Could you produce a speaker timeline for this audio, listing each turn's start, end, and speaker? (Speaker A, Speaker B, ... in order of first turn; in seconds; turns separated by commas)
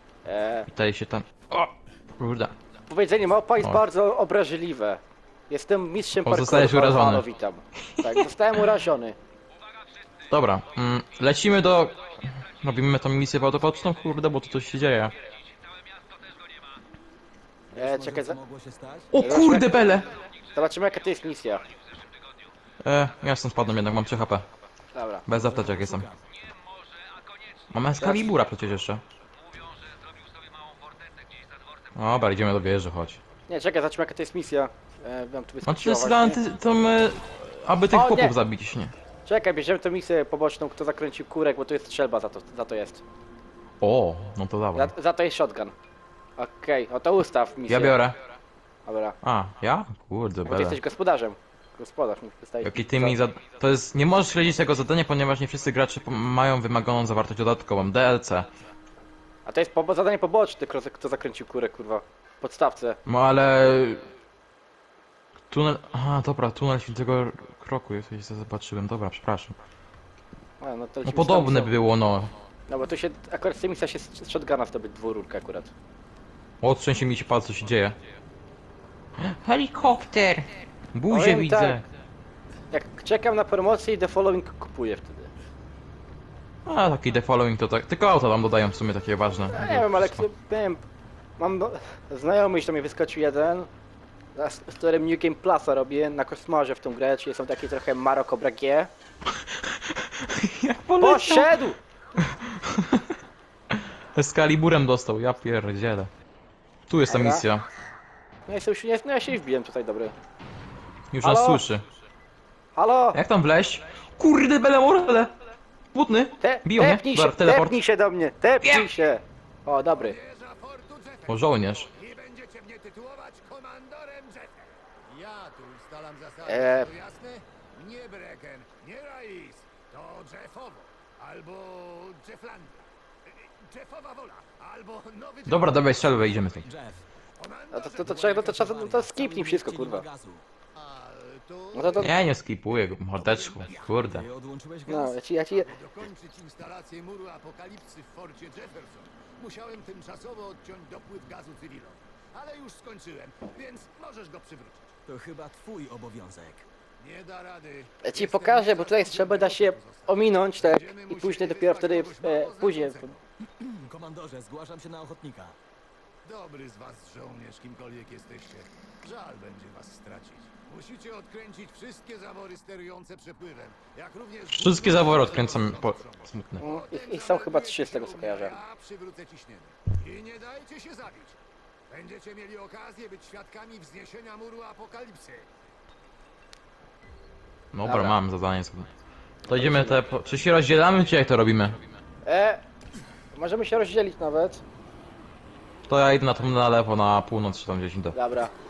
Speaker A: 0.2-0.7, Speaker B: 0.7-2.5, Speaker A: 2.9-9.2, Speaker B: 6.2-7.2, Speaker B: 7.9-8.6, Speaker B: 10.3-15.2, Speaker C: 17.7-19.1, Speaker A: 17.7-18.4, Speaker B: 19.1-20.1, Speaker A: 19.2-19.8, Speaker A: 20.5-21.6, Speaker B: 22.8-24.5, Speaker A: 24.9-25.2, Speaker B: 25.3-26.0, Speaker C: 25.3-26.2, Speaker B: 27.7-29.0, Speaker A: 28.0-28.3, Speaker B: 31.9-33.2, Speaker A: 33.5-36.4, Speaker B: 35.6-38.9, Speaker A: 37.9-38.3, Speaker A: 39.2-43.0, Speaker B: 43.8-44.9, Speaker A: 44.7-45.8, Speaker A: 46.4-48.0, Speaker B: 47.7-48.2, Speaker A: 48.9-49.2, Speaker B: 49.2-50.8, Speaker A: 50.5-53.2, Speaker B: 52.6-58.5, Speaker A: 59.5-63.0, Speaker B: 63.0-64.1, Speaker B: 65.5-69.6, Speaker A: 70.6-71.7, Speaker B: 71.0-72.3, Speaker A: 72.7-75.7, Speaker B: 76.6-78.0, Speaker B: 79.2-81.8, Speaker A: 81.1-81.8, Speaker A: 82.7-85.3, Speaker B: 86.7-90.3, Speaker A: 89.5-90.8, Speaker A: 91.4-93.7, Speaker A: 94.3-98.9, Speaker B: 99.3-101.6, Speaker A: 101.0-101.8, Speaker B: 102.2-103.2, Speaker B: 103.7-106.1, Speaker B: 106.9-107.6, Speaker A: 107.1-107.4, Speaker A: 108.5-110.1, Speaker B: 111.1-111.8, Speaker A: 111.2-111.6, Speaker A: 112.7-113.2, Speaker B: 113.1-115.3, Speaker B: 115.9-117.8, Speaker A: 116.4-120.2, Speaker B: 118.6-118.9, Speaker D: 119.9-136.5, Speaker B: 121.3-121.9, Speaker A: 126.4-126.9, Speaker B: 135.4-136.7, Speaker C: 136.6-137.0, Speaker D: 137.4-138.8, Speaker A: 137.7-140.0, Speaker C: 138.0-140.4, Speaker D: 140.7-142.1, Speaker A: 141.7-142.1, Speaker B: 142.0-144.2, Speaker D: 143.2-144.0, Speaker C: 143.9-145.2, Speaker A: 144.9-145.7, Speaker D: 145.5-154.9, Speaker C: 155.1-156.6, Speaker D: 157.0-163.2, Speaker A: 158.0-163.1, Speaker C: 163.6-165.5, Speaker D: 166.2-181.4, Speaker B: 174.5-176.7, Speaker A: 176.6-178.6, Speaker D: 181.9-185.5, Speaker B: 187.7-188.9, Speaker A: 187.8-188.2, Speaker A: 189.5-190.0, Speaker B: 189.5-191.8, Speaker A: 192.2-192.6, Speaker A: 193.3-194.6, Speaker B: 195.9-198.2, Speaker A: 198.1-198.5